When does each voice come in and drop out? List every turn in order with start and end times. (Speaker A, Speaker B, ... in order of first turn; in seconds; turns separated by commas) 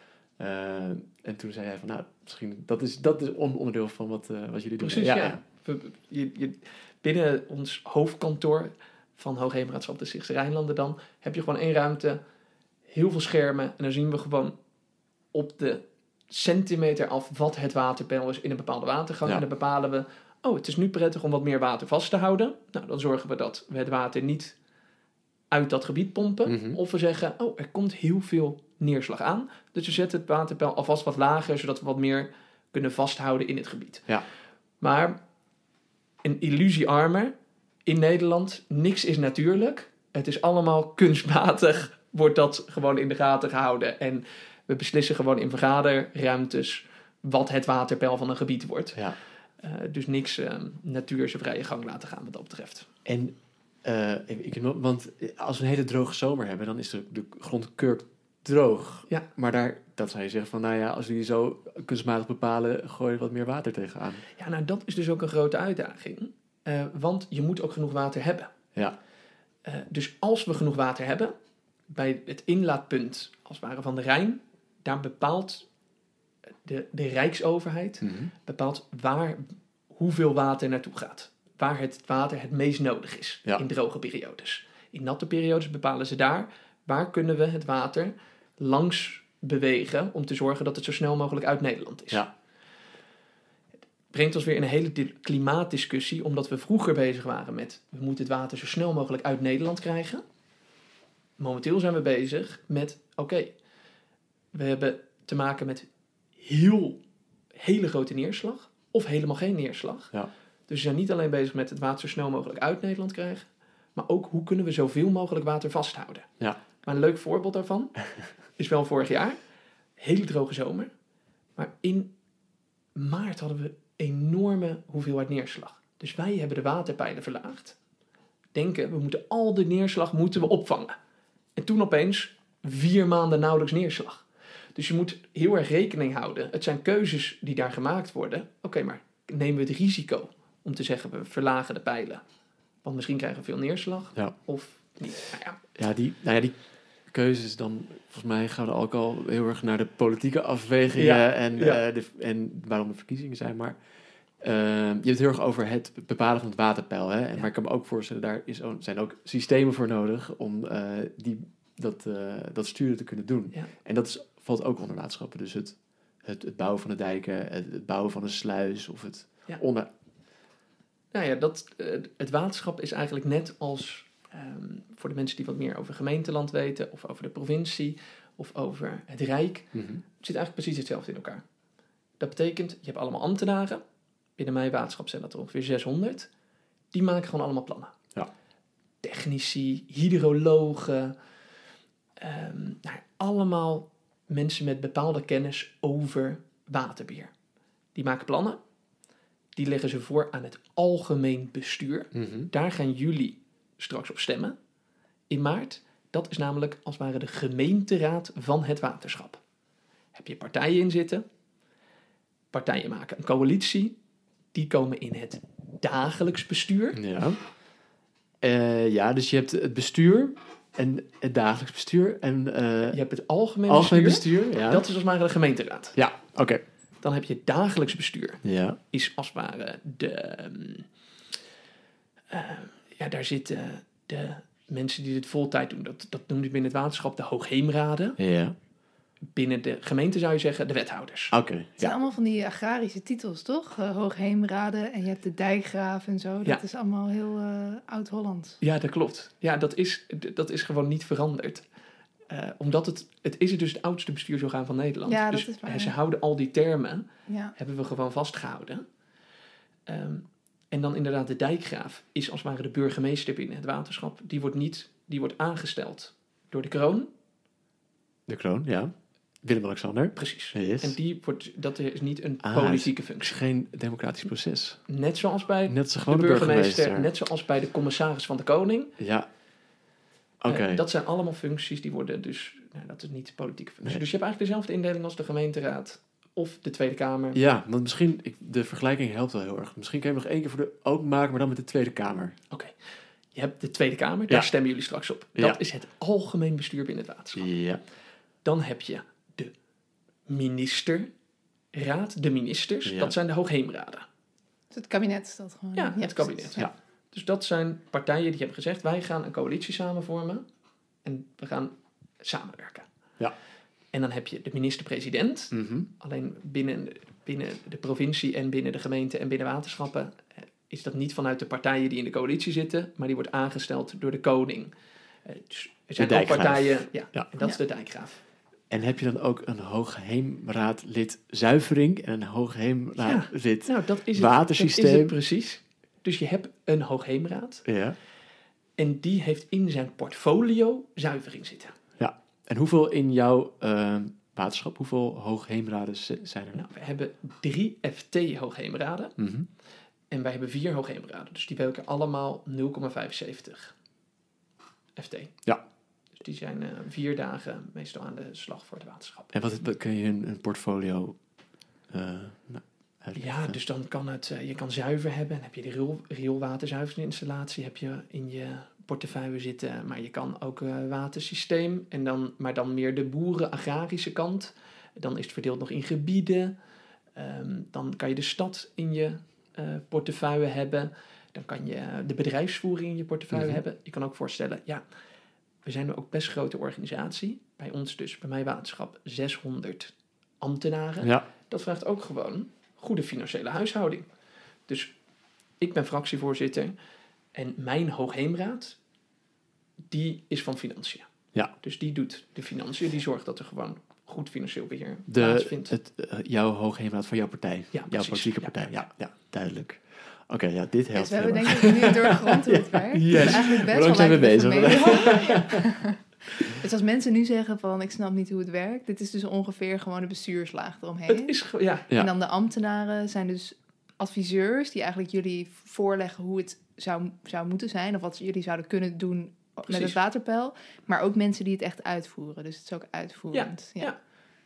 Speaker A: 0.4-5.4, Speaker B: 4.8-12.2, Speaker B: 12.9-14.6, Speaker B: 15.3-24.6, Speaker B: 25.5-34.1, Speaker A: 26.5-26.8, Speaker B: 34.8-35.2, Speaker B: 36.2-37.3, Speaker B: 37.9-49.0, Speaker B: 49.6-52.9, Speaker A: 53.1-64.2, Speaker B: 64.4-68.5, Speaker B: 69.7-71.3, Speaker B: 71.9-75.7, Speaker B: 76.6-92.2, Speaker A: 78.0-78.3, Speaker B: 94.1-100.2, Speaker B: 101.4-103.5, Speaker B: 104.5-105.9, Speaker B: 106.4-107.0, Speaker B: 107.5-110.1, Speaker B: 110.7-116.3, Speaker B: 116.8-118.0, Speaker B: 118.6-119.4, Speaker B: 120.0-120.9, Speaker B: 121.6-122.1, Speaker B: 123.0-127.8, Speaker B: 128.5-131.0, Speaker B: 131.6-142.2, Speaker B: 142.8-145.6, Speaker A: 145.8-153.8, Speaker B: 150.9-151.8, Speaker A: 154.4-169.9, Speaker B: 171.1-181.4, Speaker A: 179.7-180.0, Speaker B: 182.2-183.8, Speaker B: 184.4-186.3, Speaker B: 186.9-188.0, Speaker B: 189.0-191.2, Speaker B: 192.2-197.3, Speaker B: 197.9-198.6, Speaker B: 199.6-204.6, Speaker A: 202.1-202.5, Speaker B: 205.3-209.4, Speaker B: 210.1-211.2, Speaker B: 212.5-213.9, Speaker B: 214.5-217.0, Speaker A: 216.9-217.4, Speaker A: 218.4-223.0, Speaker B: 222.9-225.9, Speaker A: 223.7-224.8, Speaker A: 225.9-226.6, Speaker B: 227.0-230.9, Speaker A: 228.4-228.8, Speaker B: 232.3-238.2, Speaker A: 238.2-238.6, Speaker B: 239.3-241.4, Speaker A: 241.3-242.0, Speaker C: 241.8-248.6, Speaker B: 248.6-251.6, Speaker B: 252.3-258.9, Speaker C: 255.1-255.9, Speaker C: 257.3-257.5, Speaker B: 259.9-267.1, Speaker A: 268.3-271.0, Speaker B: 270.2-273.4, Speaker A: 272.4-274.8, Speaker B: 274.9-278.9, Speaker A: 275.7-277.1, Speaker A: 279.0-279.3, Speaker A: 280.4-280.8, Speaker B: 280.5-287.4, Speaker A: 287.4-292.4, Speaker B: 293.3-297.5, Speaker A: 297.4-297.8, Speaker B: 298.4-299.5, Speaker B: 300.3-301.1, Speaker B: 301.7-304.1, Speaker A: 302.9-303.2, Speaker C: 304.7-306.6, Speaker B: 305.8-310.4, Speaker B: 311.1-312.9, Speaker B: 313.9-324.7, Speaker A: 315.5-315.9, Speaker B: 325.2-328.2, Speaker A: 326.0-327.3, Speaker A: 328.7-335.1, Speaker B: 333.0-337.6, Speaker A: 337.7-338.0, Speaker B: 338.8-341.8, Speaker A: 342.0-346.6, Speaker B: 346.5-349.1, Speaker A: 349.2-349.5, Speaker B: 350.1-353.7, Speaker B: 355.0-355.4, Speaker B: 356.2-359.3, Speaker A: 359.3-361.2, Speaker A: 361.9-363.6, Speaker B: 363.1-376.5, Speaker B: 377.2-384.8, Speaker A: 383.3-383.6, Speaker B: 385.6-394.1, Speaker B: 395.6-396.7, Speaker B: 397.3-398.8, Speaker B: 399.9-401.1, Speaker B: 401.6-405.7, Speaker A: 405.1-415.6, Speaker B: 407.7-408.9, Speaker C: 410.9-421.3, Speaker B: 421.1-421.9, Speaker C: 421.9-433.9, Speaker B: 429.7-430.0, Speaker B: 433.3-434.0